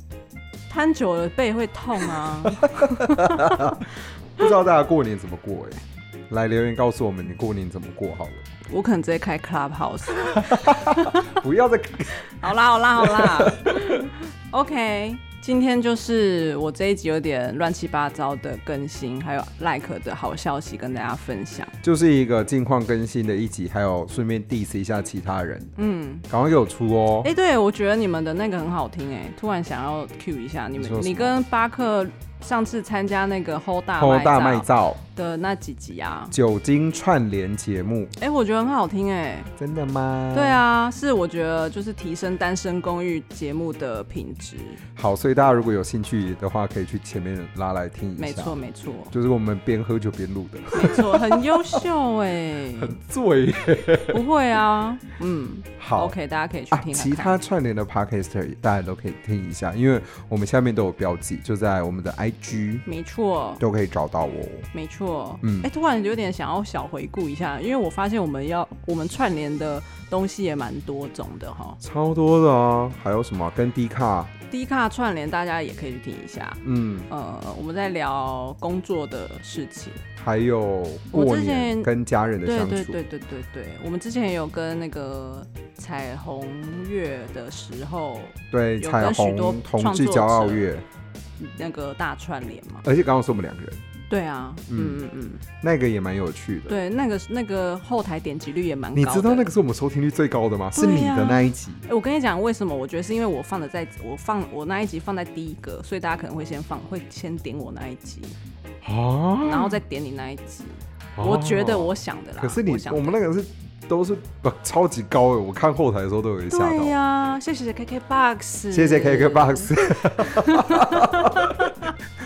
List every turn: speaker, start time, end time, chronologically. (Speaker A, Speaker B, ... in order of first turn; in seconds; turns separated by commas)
Speaker A: 0.7-3.8, Speaker B: 2.2-8.4, Speaker A: 8.7-11.2, Speaker B: 10.2-14.1, Speaker A: 12.4-21.7, Speaker B: 21.8-25.7, Speaker A: 25.8-26.3, Speaker B: 26.3-27.3, Speaker A: 27.2-36.3, Speaker B: 30.8-31.4, Speaker B: 34.0-35.0, Speaker B: 36.3-38.1, Speaker A: 38.2-39.5, Speaker B: 39.6-40.6, Speaker A: 40.3-44.8, Speaker B: 45.0-48.6, Speaker A: 48.2-49.1, Speaker B: 49.1-51.8, Speaker A: 50.7-53.0, Speaker B: 52.8-54.2, Speaker A: 54.1-57.4, Speaker B: 55.8-56.1, Speaker B: 56.7-62.8, Speaker A: 62.9-63.6, Speaker B: 63.6-64.7, Speaker A: 64.7-71.8, Speaker B: 65.4-65.7, Speaker B: 71.8-74.3, Speaker A: 74.5-80.0, Speaker B: 76.6-77.1, Speaker B: 80.2-83.0, Speaker A: 81.1-81.9, Speaker A: 82.4-90.7, Speaker B: 88.5-90.9, Speaker A: 91.4-92.8, Speaker B: 92.8-93.9, Speaker A: 94.1-95.4, Speaker B: 94.7-95.0, Speaker B: 95.6-96.8, Speaker A: 96.7-99.5, Speaker B: 98.9-101.9, Speaker A: 100.7-108.4, Speaker B: 108.8-109.8, Speaker A: 109.4-113.2, Speaker B: 111.2-117.0, Speaker A: 116.5-121.9, Speaker B: 118.7-121.8